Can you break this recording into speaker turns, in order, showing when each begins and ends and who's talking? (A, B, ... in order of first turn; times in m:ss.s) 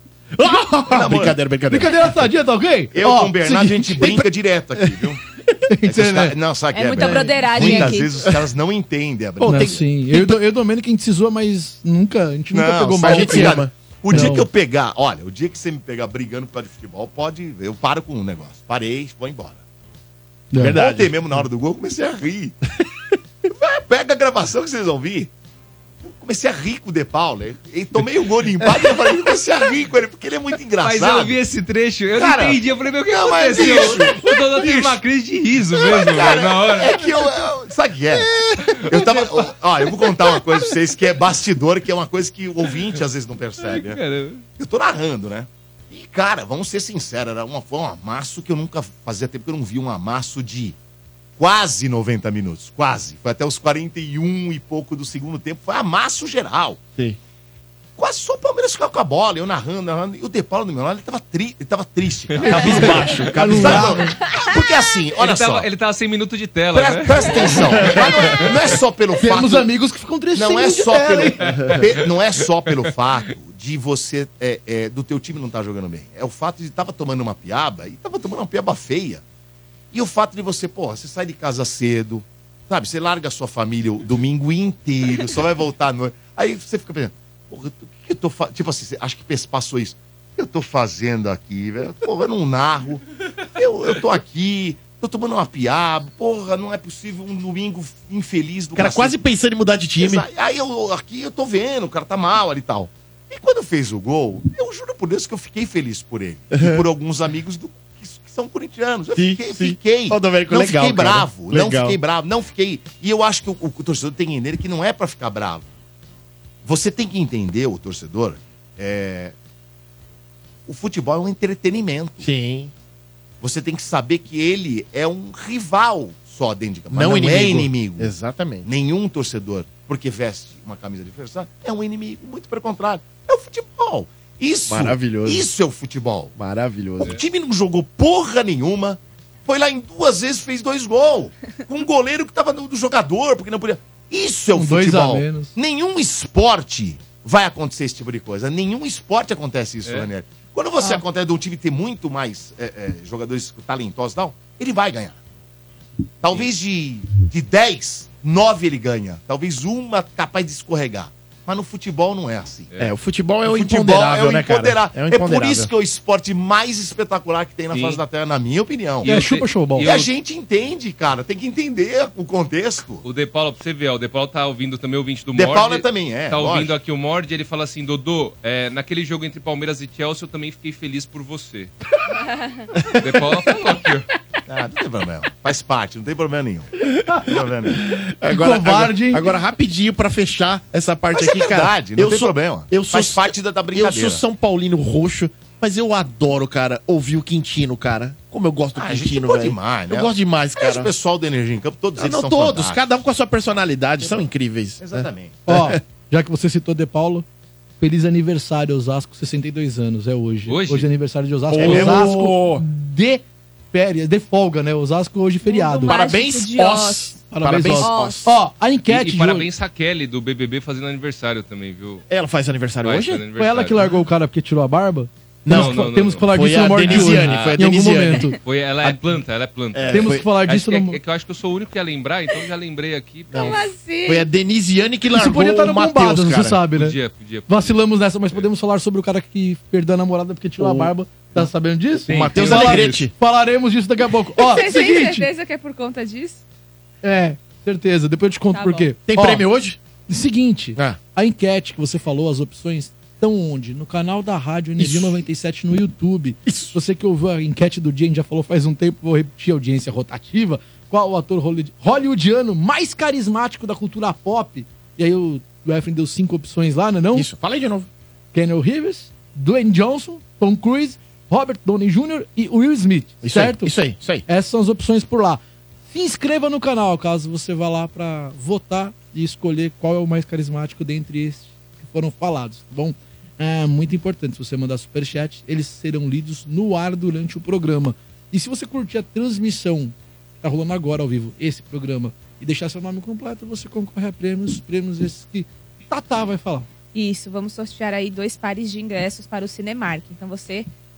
0:00.4-0:02.2 A
0:00.9-0:01.4 B
0:01.7-0:04.2 C
0:02.9-0:05.2 B
0:05.7-0:06.4 C
0:05.8-0:09.8 B
0:06.7-0:08.2 D
0:07.0-0:07.7 C
0:09.4-0:10.4 A
0:09.4-0:14.5 C
0:12.5-0:19.6 B
0:13.0-0:14.3 A
0:20.5-0:20.8 C
0:20.6-0:21.1 A
0:20.6-0:22.6 B
0:23.5-0:25.3 B
0:26.0-0:31.4 B
0:30.8-0:37.1 E
0:32.2-0:35.0 B
0:33.3-0:34.6 A
0:35.8-0:44.0 B
0:43.6-0:44.4 E
0:44.6-0:50.8 B
0:51.4-0:56.8 B
0:58.0-1:05.7 B
1:02.4-1:04.0 A
1:02.5-1:04.2 C
1:05.2-1:07.3 E
1:06.7-1:09.7 B
1:07.7-1:08.2 A
1:09.2-1:11.5 C
1:10.3-1:19.2 B
1:19.9-1:33.0 B
1:33.6-1:39.2 B
1:38.8-1:40.2 A
1:40.0-1:55.7 B
1:46.6-1:46.8 A
1:49.2-1:52.0 A
1:56.6-1:59.4 B
2:00.7-2:02.3 B
2:02.2-2:02.7 A
2:03.4-2:08.1 B
2:06.9-2:08.7 A
2:08.6-2:16.3 B
2:14.7-2:15.5 A
2:16.4-2:17.2 A
2:17.0-2:35.2 B
2:24.6-2:25.6 C
2:36.2-2:42.7 B
2:42.8-2:45.7 A
2:43.4-2:49.1 B
2:47.7-2:48.0 E
2:49.0-2:50.1 E
2:49.0-2:49.9 C
2:49.8-2:53.0 B
2:53.0-3:01.7 E
2:55.3-2:56.7 B
3:02.8-3:03.0 A
3:03.0-3:04.1 E
3:04.5-3:07.8 B
3:07.9-3:20.9 A
3:08.3-3:09.3 C
3:11.1-3:14.2 B
3:18.8-3:22.9 B
3:22.0-3:25.8 A
3:24.8-3:25.4 B
3:25.5-3:27.3 C
3:27.8-3:36.0 C
3:30.5-3:30.9 E
3:31.5-3:32.6 A
3:31.6-3:31.9 B
3:35.5-3:38.2 D
3:35.8-3:38.3 A
3:37.3-3:39.5 C
3:38.9-3:42.0 E
3:42.1-3:43.2 A
3:42.8-3:44.0 E
3:43.4-3:48.4 C
3:45.4-3:49.0 A
3:45.5-3:46.2 E
3:46.9-3:47.6 E
3:48.4-3:53.6 E
3:49.7-3:50.3 A
3:49.9-3:51.0 C
3:53.3-3:56.6 A
3:53.4-3:54.3 D
3:55.2-3:57.0 C
3:56.7-3:57.8 E
3:57.5-4:05.3 C
4:00.6-4:01.4 A
4:02.0-4:03.1 A
4:02.1-4:03.0 E
4:04.4-4:06.4 D
4:07.0-4:09.5 C
4:08.5-4:08.9 D
4:09.0-4:09.8 A
4:10.1-4:27.3 C
4:14.8-4:15.2 A
4:16.5-4:16.8 A
4:27.1-4:27.9 A
4:28.3-4:56.7 C
4:33.2-4:34.2 A
4:56.9-5:00.7 D